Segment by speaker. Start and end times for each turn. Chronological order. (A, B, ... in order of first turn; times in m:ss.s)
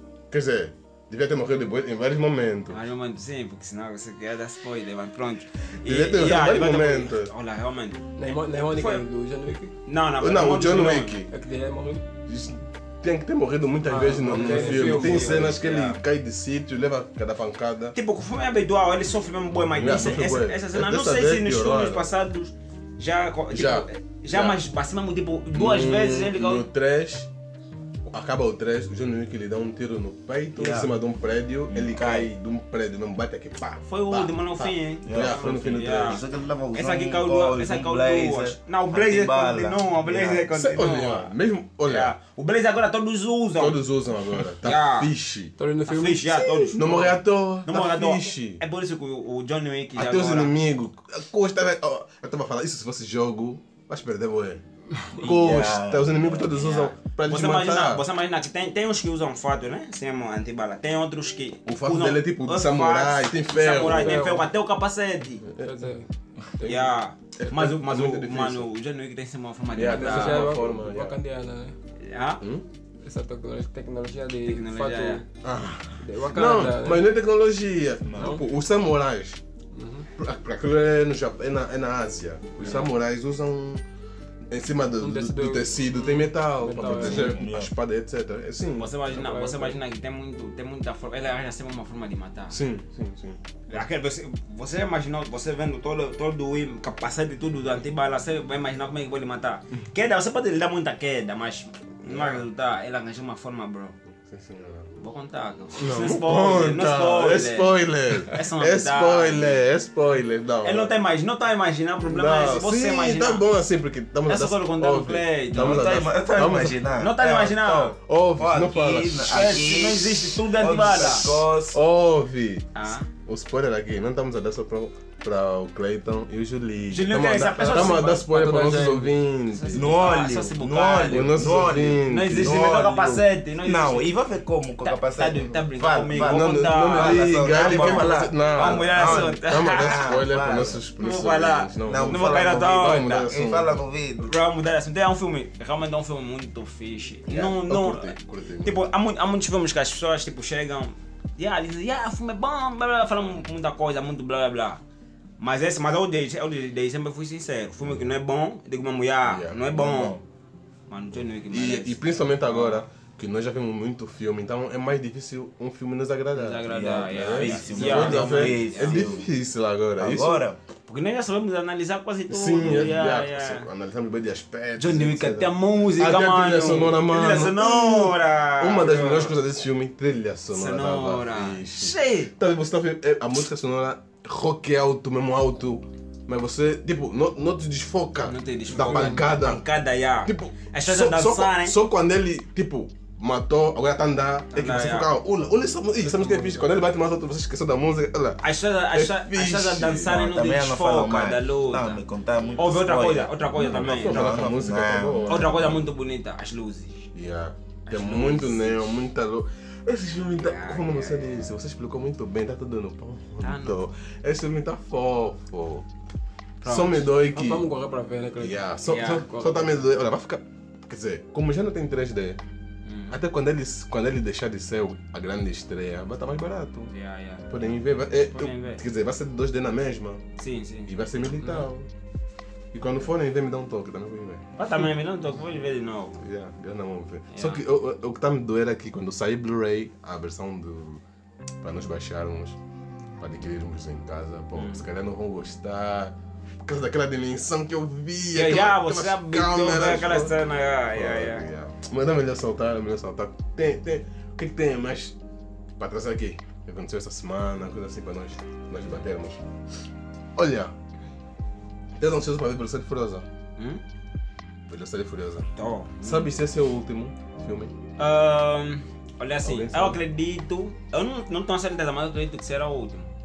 0:00.3-0:02.8 A
0:02.7-0:09.0 B
0:05.8-0:07.3 A
0:08.2-0:09.7 C
0:09.8-0:11.2 B
0:10.2-0:11.3 A
0:11.3-0:12.0 C
0:12.3-0:18.0 A
0:13.8-0:15.6 C
0:14.2-0:16.0 B
0:17.9-0:26.7 B
0:19.7-0:22.1 A
0:19.9-0:20.2 D
0:23.5-0:24.6 A
0:25.5-0:27.3 A
0:28.1-0:36.2 A
0:30.5-0:30.9 D
0:31.7-0:32.3 D
0:33.9-0:36.2 B
0:35.0-0:40.5 D
0:36.7-0:41.3 B
0:40.5-0:42.1 A
0:41.8-0:43.8 B
0:43.6-0:45.5 A
0:44.6-0:45.1 B
0:45.6-0:47.1 C
0:45.9-0:47.1 B
0:46.7-0:48.6 A
0:47.6-0:50.5 B
0:50.0-0:58.0 A
0:55.2-0:56.6 D
0:56.5-1:05.5 B
1:01.6-1:04.2 A
1:03.7-1:04.5 C
1:05.4-1:05.7 A
1:05.6-1:06.8 C
1:06.6-1:08.7 A
1:06.6-1:10.6 B
1:09.7-1:11.2 A
1:09.8-1:11.7 C
1:12.0-1:12.4 B
1:12.4-1:12.6 A
1:13.0-1:15.2 C
1:14.4-1:15.2 B
1:15.4-1:19.4 A
1:16.0-1:17.1 C
1:18.0-1:18.4 D
1:18.2-1:18.4 C
1:19.7-1:20.1 C
1:20.2-1:23.8 A
1:22.6-1:22.9 B
1:24.5-1:29.4 A
1:25.0-1:27.4 C
1:26.8-1:27.7 D
1:28.7-1:32.6 B
1:29.1-1:29.7 C
1:32.5-1:33.5 A
1:33.7-1:43.9 B
1:42.0-1:42.4 A
1:44.0-1:45.0 A
1:45.0-1:47.7 B
1:45.8-1:50.9 A
1:48.2-1:49.6 B
1:50.6-1:53.4 B
1:52.0-1:56.8 A
1:54.3-1:56.1 B
1:55.5-2:01.8 D
1:57.0-1:58.0 B
1:58.0-1:59.4 A
1:59.2-2:01.4 B
2:01.7-2:09.9 A
2:02.7-2:03.1 B
2:06.9-2:08.2 B
2:07.8-2:09.1 C
2:09.5-2:14.1 B
2:09.7-2:20.8 D
2:11.1-2:12.8 A
2:14.8-2:20.1 B
2:16.1-2:23.8 A
2:21.0-2:23.3 B
2:21.8-2:24.3 D
2:24.2-2:34.8 B
2:27.3-2:28.9 A
2:35.4-2:40.2 B
2:39.2-2:39.6 A
2:39.6-2:40.2 D
2:40.9-2:42.8 B
2:41.5-2:50.4 A
2:46.3-2:49.1 B
2:46.6-2:49.3 D
2:50.0-2:50.6 D
2:50.9-2:53.7 B
2:52.3-3:09.6 A
2:54.8-2:59.4 B
3:00.5-3:02.3 B
3:08.2-3:11.8 B
3:08.8-3:09.2 C
3:10.2-3:20.1 A
3:14.5-3:15.1 B
3:16.0-3:16.7 C
3:18.4-3:22.0 B
3:20.0-3:25.8 D
3:22.6-3:24.5 B
3:23.5-3:25.8 A
3:25.3-3:27.1 B
3:27.1-3:35.8 A
3:27.8-3:28.8 B
3:30.4-3:31.5 B
3:33.4-3:33.8 B
3:36.6-3:37.1 B
3:36.6-3:37.7 A
3:37.2-3:39.8 C
3:38.4-3:42.4 A
3:38.9-3:39.2 B
3:42.8-3:43.2 B
3:43.1-3:46.9 A
3:46.9-3:48.8 B
3:47.5-3:50.2 A
3:50.4-3:51.6 B
3:50.9-3:51.9 A
3:52.7-3:54.4 A
3:54.6-3:56.2 B
3:56.2-4:01.0 A
3:57.3-3:57.6 B
4:01.6-4:02.6 A
4:03.2-4:10.4 A
4:04.5-4:04.8 B
4:08.3-4:11.4 B
4:10.9-4:15.2 A
4:15.8-4:19.4 A
4:20.4-4:20.7 A
4:22.0-4:23.2 A
4:23.6-4:23.8 B
4:24.7-4:25.5 A
4:25.6-4:26.3 B
4:26.0-4:27.7 A
4:28.0-4:33.1 B
4:29.4-4:30.0 A